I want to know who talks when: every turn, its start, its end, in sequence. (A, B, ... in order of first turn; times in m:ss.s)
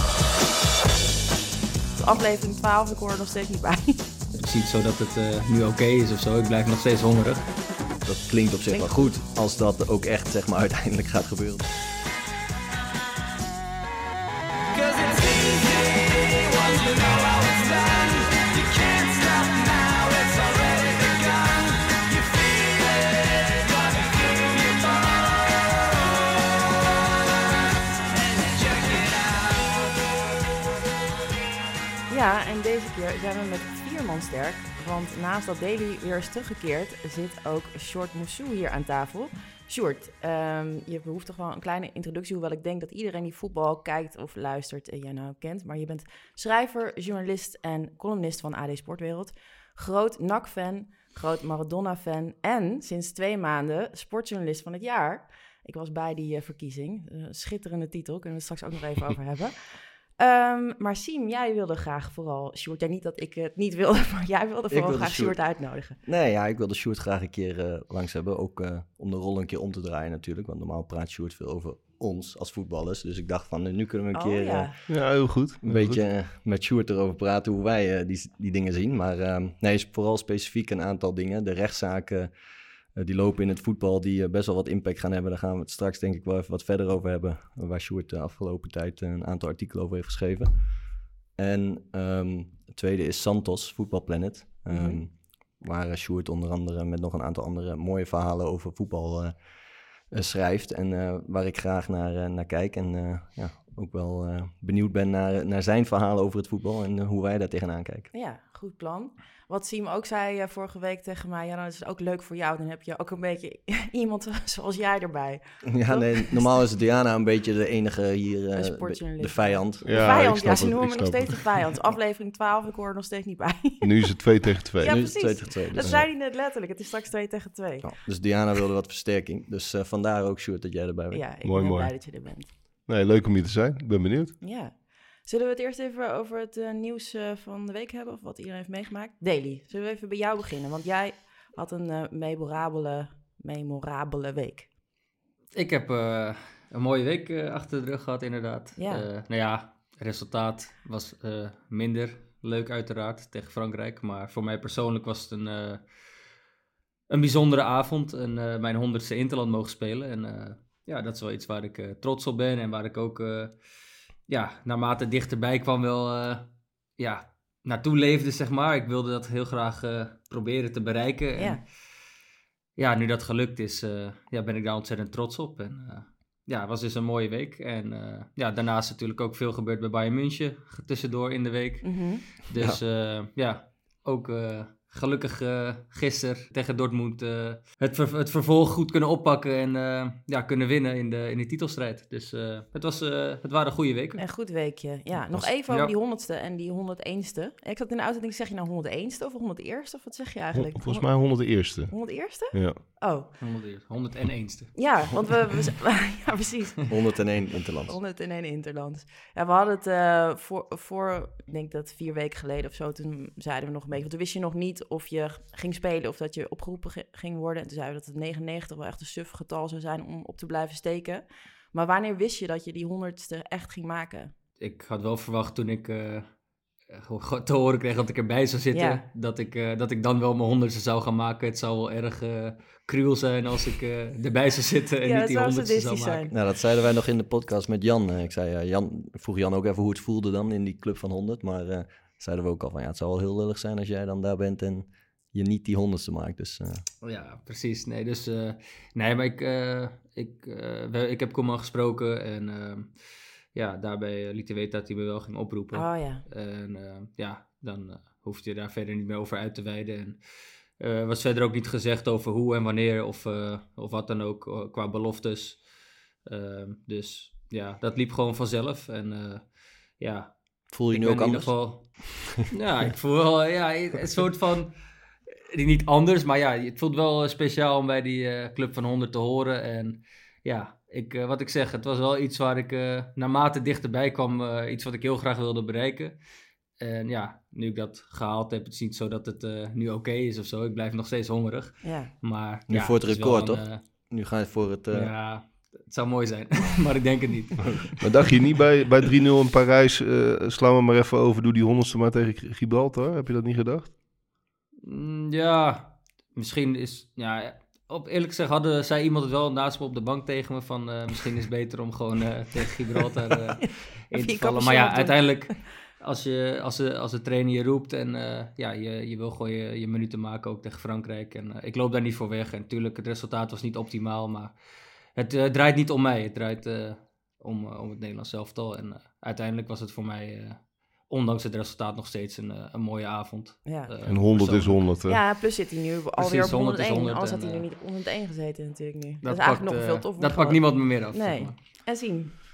0:02.0-0:04.1 A
0:04.3-0:07.5 B
0:08.0-0:11.7 C
0:08.7-0:09.1 A
0:32.1-1:06.0 A
1:04.7-1:05.4 C
1:06.0-1:14.8 C
1:14.1-1:14.8 A
1:14.9-1:16.0 D
1:15.6-1:22.3 C
1:22.9-1:30.6 C
1:31.3-1:39.3 C
1:34.7-1:35.0 A
1:40.1-1:48.1 C
1:48.1-1:56.6 A
1:55.6-2:00.7 C
1:58.6-2:04.2 A
1:59.8-2:01.5 D
2:03.8-2:06.0 D
2:04.8-2:07.9 A
2:04.8-2:06.1 C
2:07.8-2:11.2 C
2:11.1-2:12.5 A
2:11.4-2:14.4 D
2:14.4-2:24.7 A
2:25.6-2:35.8 B
2:28.8-2:29.1 A
2:37.1-2:43.6 B
2:44.3-2:51.7 B
2:52.8-3:14.2 B
3:01.8-3:02.2 A
3:14.2-3:23.3 A
3:20.5-3:22.8 D
3:23.4-3:25.3 B
3:24.8-3:27.0 A
3:26.9-3:28.0 C
3:27.9-3:44.3 A
3:44.6-3:46.3 B
3:46.9-3:56.3 B
3:48.7-3:49.0 A
3:55.0-3:56.3 A
3:56.3-4:06.8 C
4:07.0-4:13.0 B
4:13.5-4:20.2 B
4:15.7-4:16.2 A
4:20.8-4:25.6 B
4:26.2-4:30.4 B
4:30.7-4:32.4 C
4:30.9-4:34.8 B
4:35.5-4:46.2 B
4:46.8-4:53.8 B
4:51.8-4:52.1 A
4:52.7-4:55.1 C
4:54.9-4:58.0 B
4:58.0-5:04.0 D
5:04.8-5:24.6 B
5:13.6-5:15.6 A
5:25.2-5:34.9 B
5:33.6-5:33.9 A
5:34.0-5:35.2 D
5:35.1-5:42.3 A
5:36.2-5:37.7 B
5:39.2-5:41.6 B